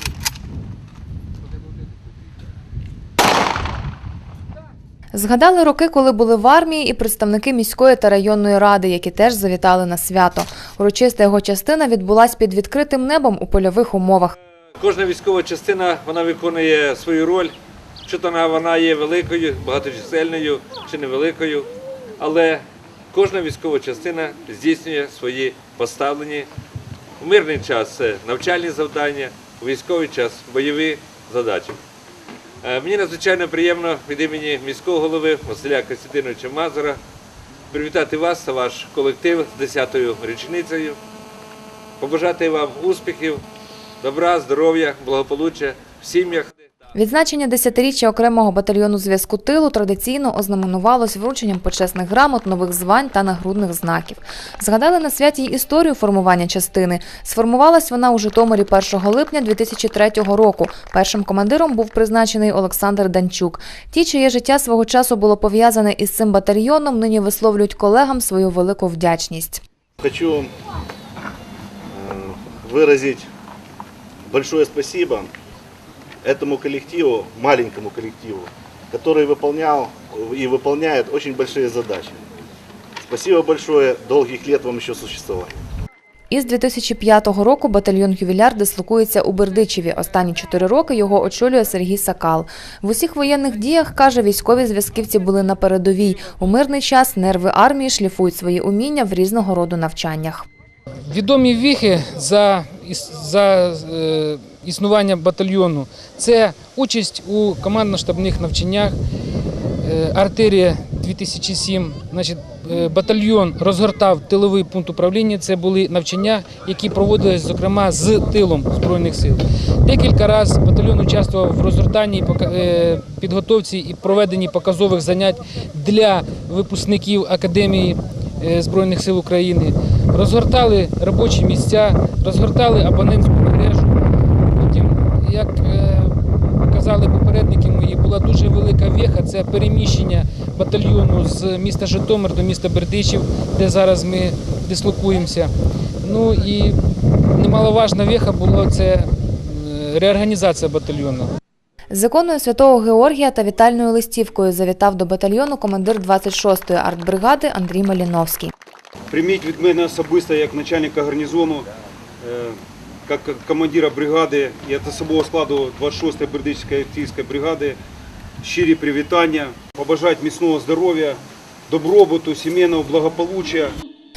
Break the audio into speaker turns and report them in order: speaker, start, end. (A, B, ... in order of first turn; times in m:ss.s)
0:05.1-0:14.4 A
0:14.8-0:17.5 B
0:18.0-0:26.5 B
0:27.2-0:31.8 B
0:32.6-0:37.0 B
0:37.7-0:41.0 B
0:42.0-0:43.4 B
0:44.0-0:46.6 B
0:47.0-1:09.6 A
1:10.0-1:10.5 C
1:11.9-1:13.3 C
1:14.3-1:15.3 C
1:16.2-1:22.2 C
1:23.0-1:25.5 C
1:26.3-1:40.5 A
1:41.1-1:49.0 D
1:49.8-2:13.9 D
2:14.6-2:25.5 D
2:26.0-2:26.8 D
2:27.4-2:31.3 D
2:31.9-2:38.5 A
2:39.1-2:41.7 E
2:42.2-2:47.8 E
2:48.4-2:53.8 E